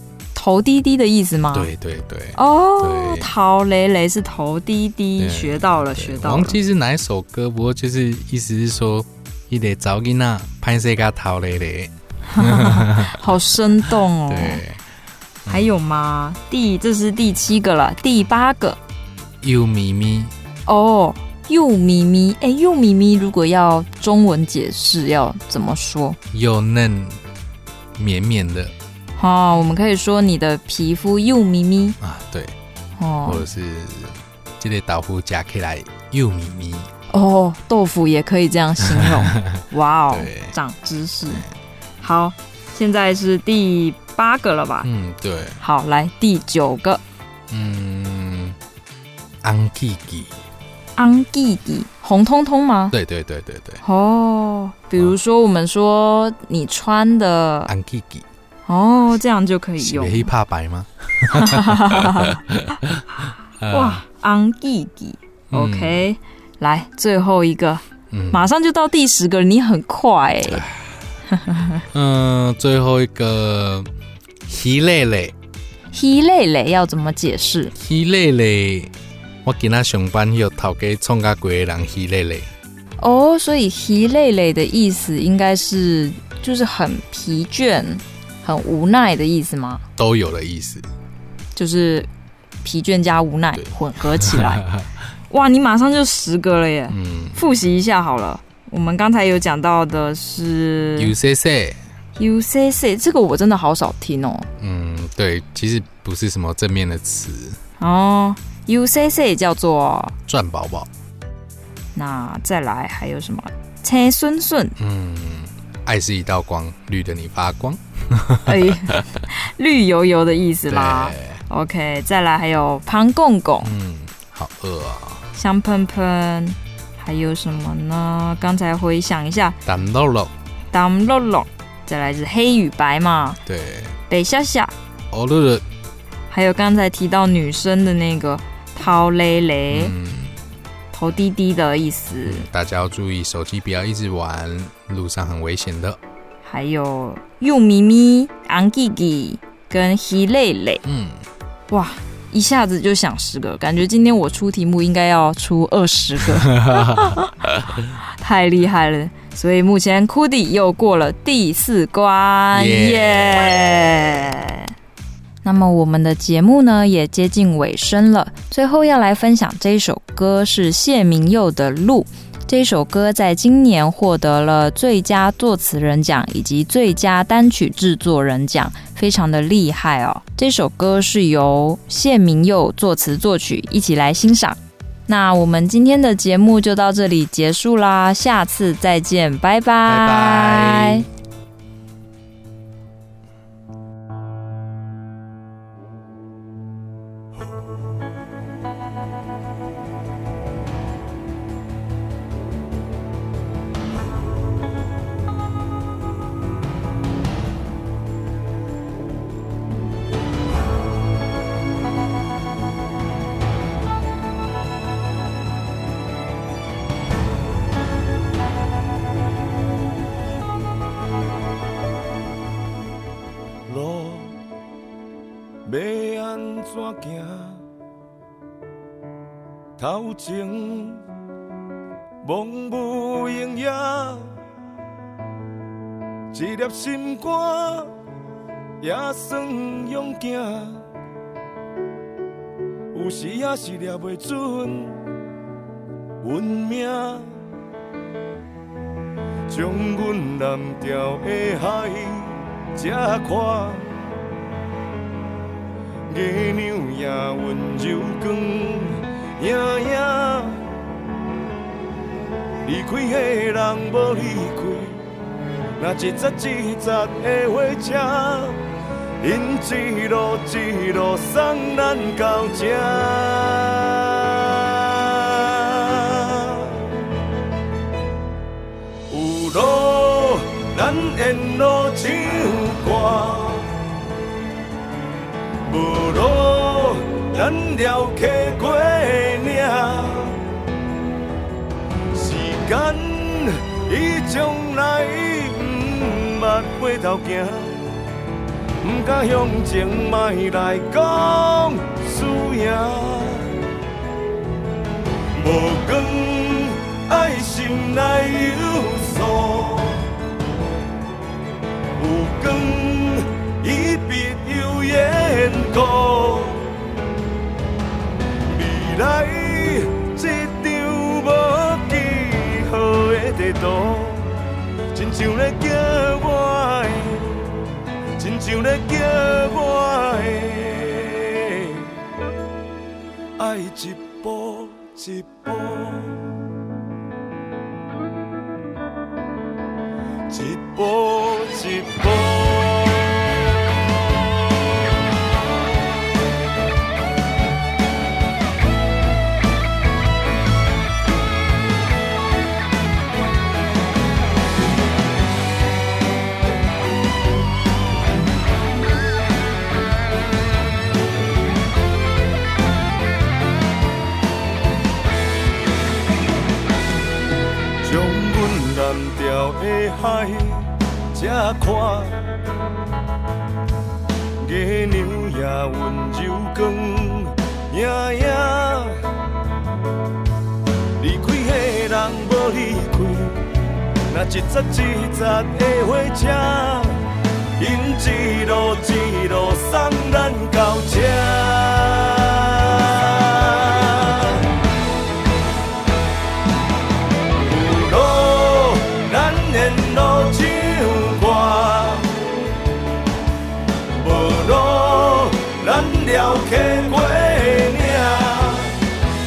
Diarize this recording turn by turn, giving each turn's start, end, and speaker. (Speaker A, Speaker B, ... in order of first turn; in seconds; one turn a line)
Speaker A: 0.3-1.7
Speaker B: 1.5-3.3
Speaker A: 2.4-6.6
Speaker B: 5.2-13.3
Speaker A: 12.3-14.6
Speaker B: 14.3-14.8
Speaker A: 15.5-18.8
Speaker B: 19.4-20.3
Speaker A: 20.7-26.2
Speaker B: 26.3-27.2
Speaker B: 28.0-28.7
Speaker A: 29.2-32.0
Speaker B: 32.0-32.5
Speaker A: 33.0-33.4
Speaker B: 33.3-36.9
Speaker A: 37.1-41.4
Speaker B: 38.9-40.5
Speaker A: 42.0-44.9
Speaker B: 44.8-45.6
Speaker A: 45.6-47.0
Speaker B: 47.5-48.6
Speaker B: 49.4-50.3
Speaker A: 51.0-53.0
Speaker B: 52.9-53.8
Speaker A: 53.8-57.7
Speaker B: 57.7-58.3
Speaker A: 58.7-60.3
Speaker B: 59.8-63.0
Speaker A: 61.3-62.4
Speaker B: 63.6-64.0
Speaker A: 63.7-70.7
Speaker B: 65.5-66.0
Speaker B: 68.1-68.4
Speaker B: 70.5-70.9
Speaker A: 71.3-71.8
Speaker B: 71.9-73.9
Speaker B: 74.5-75.3
Speaker A: 75.9-77.7
Speaker B: 77.7-78.9
Speaker B: 79.4-82.5
Speaker A: 83.0-89.8
Speaker B: 90.0-90.9
Speaker A: 91.5-92.1
Speaker A: 92.6-94.7
Speaker B: 93.5-94.9
Speaker A: 95.3-101.1
Speaker B: 96.9-97.4
Speaker B: 101.0-101.8
Speaker A: 102.2-104.5
Speaker B: 104.6-107.6
Speaker A: 107.8-110.2
Speaker B: 110.3-110.9
Speaker A: 112.0-114.8
Speaker B: 114.8-119.0
Speaker A: 118.5-123.7
Speaker B: 120.7-121.4
Speaker B: 123.6-125.2
Speaker A: 125.3-129.6
Speaker B: 129.7-130.3
Speaker A: 130.7-133.4
Speaker B: 133.5-133.9
Speaker A: 134.1-134.7
Speaker B: 135.1-135.6
Speaker A: 136.3-139.9
Speaker B: 139.7-140.4
Speaker A: 140.9-142.5
Speaker B: 142.2-146.0
Speaker A: 146.4-150.8
Speaker B: 150.8-151.2
Speaker A: 151.7-157.3
Speaker B: 156.5-157.2
Speaker A: 158.2-164.7
Speaker B: 162.5-164.3
Speaker A: 165.4-191.1
Speaker B: 189.9-191.1
Speaker C: 223.7-224.4
Speaker C: 225.7-227.6
Speaker C: 229.8-231.0
Speaker C: 232.2-234.3
Speaker C: 236.3-237.9
Speaker C: 238.8-240.8
Speaker C: 242.9-245.0
Speaker C: 246.2-247.3
Speaker C: 249.5-253.9
Speaker C: 256.1-260.7
Speaker C: 262.6-265.0
Speaker C: 265.8-268.6
Speaker C: 269.2-276.8
Speaker C: 279.1-283.7
Speaker C: 285.7-290.4
Speaker C: 292.1-297.8
Speaker C: 298.8-303.5
Speaker C: 305.3-310.0
Speaker C: 312.0-316.7
Speaker C: 318.4-324.3
Speaker C: 324.9-327.4
Speaker C: 328.2-331.9
Speaker C: 333.4-336.2
Speaker C: 340.3-342.8
Speaker C: 367.8-372.2
Speaker C: 374.4-379.0
Speaker C: 381.0-383.4
Speaker C: 384.1-387.0
Speaker C: 387.6-394.4
Speaker C: 397.4-402.1
Speaker C: 404.0-408.7